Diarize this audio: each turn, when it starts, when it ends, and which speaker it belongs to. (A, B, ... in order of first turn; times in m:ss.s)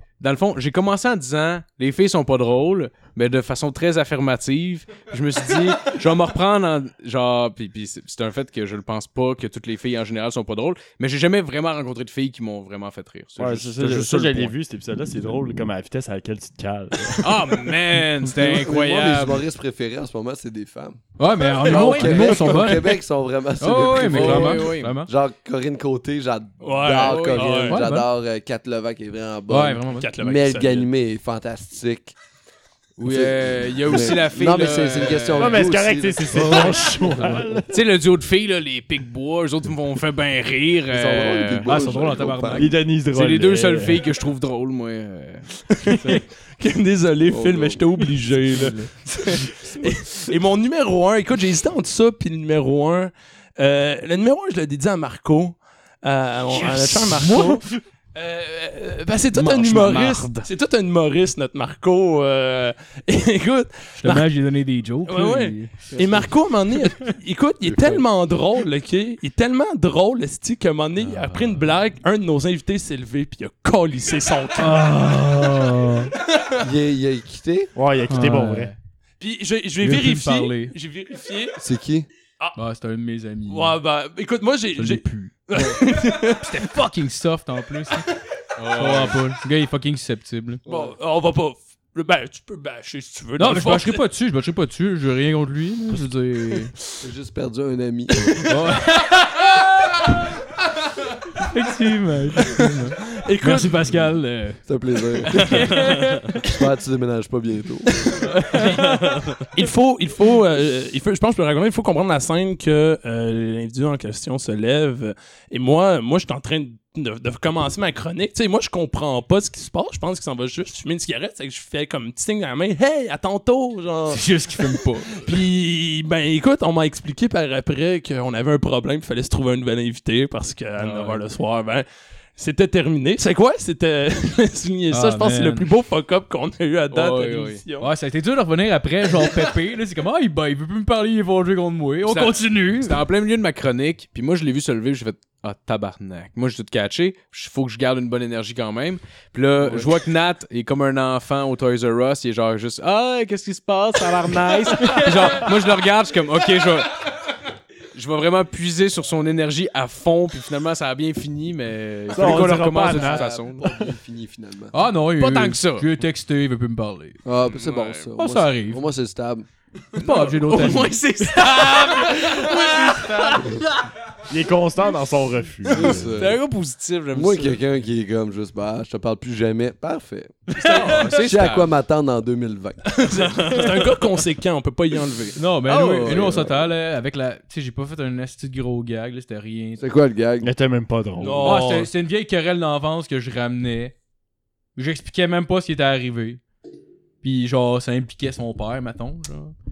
0:00.2-0:14.5 A
0:13.4-0:18.3 B
0:17.2-0:19.5 A
0:18.4-0:21.0 C
0:21.2-0:23.0 D
0:21.6-0:32.2 C
0:21.7-0:22.5 A
0:23.6-0:25.1 D
0:23.8-0:25.0 A
0:26.6-0:27.9 E
0:27.0-0:27.6 A
0:27.5-0:28.1 D
0:29.5-0:30.1 D
0:29.9-0:30.9 E
0:33.0-0:35.7 A
0:33.0-0:37.1 C
0:35.4-0:37.8 B
0:37.2-0:37.4 D
0:37.7-0:41.8 A
0:40.9-0:42.7 C
0:41.6-0:42.7 D
0:42.6-0:44.0 B
0:43.1-0:45.5 A
0:45.8-1:04.3 E
0:47.3-0:47.8 C
0:56.8-0:57.6 D
0:57.2-0:57.5 A
0:59.3-1:00.5 A
1:04.0-1:05.7 D
1:05.1-1:14.8 E
1:05.9-1:06.3 C
1:07.6-1:08.0 C
1:11.1-1:11.6 D
1:14.6-1:16.1 D
1:16.6-1:17.7 C
1:17.8-1:18.7 B
1:18.1-1:18.8 D
1:19.2-1:21.6 E
1:19.8-1:20.7 D
1:21.6-1:22.1 C
1:22.6-1:23.8 D
1:23.5-1:26.7 E
1:24.8-1:28.1 D
1:28.6-1:29.2 A
1:28.7-1:30.6 D
1:30.7-1:31.0 C
1:30.7-1:34.0 E
1:33.4-1:36.7 D
1:37.0-1:38.6 C
1:38.4-1:40.1 D
1:41.4-1:44.6 D
1:42.4-1:44.0 E
1:44.7-1:45.8 C
1:45.3-1:46.4 D
1:46.4-1:48.3 C
1:48.2-1:48.9 D
1:48.8-1:49.5 A
1:49.5-2:11.8 E
2:04.1-2:05.3 D
2:10.9-2:11.2 A
2:12.4-2:17.9 E
2:14.9-2:15.7 D
2:16.9-2:17.6 A
2:17.8-2:23.0 D
2:22.1-2:37.1 A
2:29.6-2:29.9 D
2:34.8-2:35.4 D
2:37.9-2:43.8 A
2:42.1-2:43.4 B
2:42.9-2:44.8 C
2:44.7-2:47.2 D
2:45.2-2:45.9 A
2:47.2-2:49.5 C
2:47.4-2:48.1 A
2:48.2-2:48.8 D
2:50.0-2:53.5 D
2:50.0-2:53.6 A
2:54.3-2:56.3 B
2:55.7-2:56.4 C
2:56.0-2:57.6 A
2:57.1-3:03.0 C
3:00.6-3:01.7 A
3:00.6-3:01.1 D
3:03.0-3:05.4 E
3:05.4-3:09.8 D
3:05.7-3:06.7 C
3:09.8-3:10.5 C
3:10.4-3:11.7 B
3:11.2-3:11.9 E
3:11.4-3:13.9 D
3:14.8-3:16.4 D
3:17.2-3:19.5 D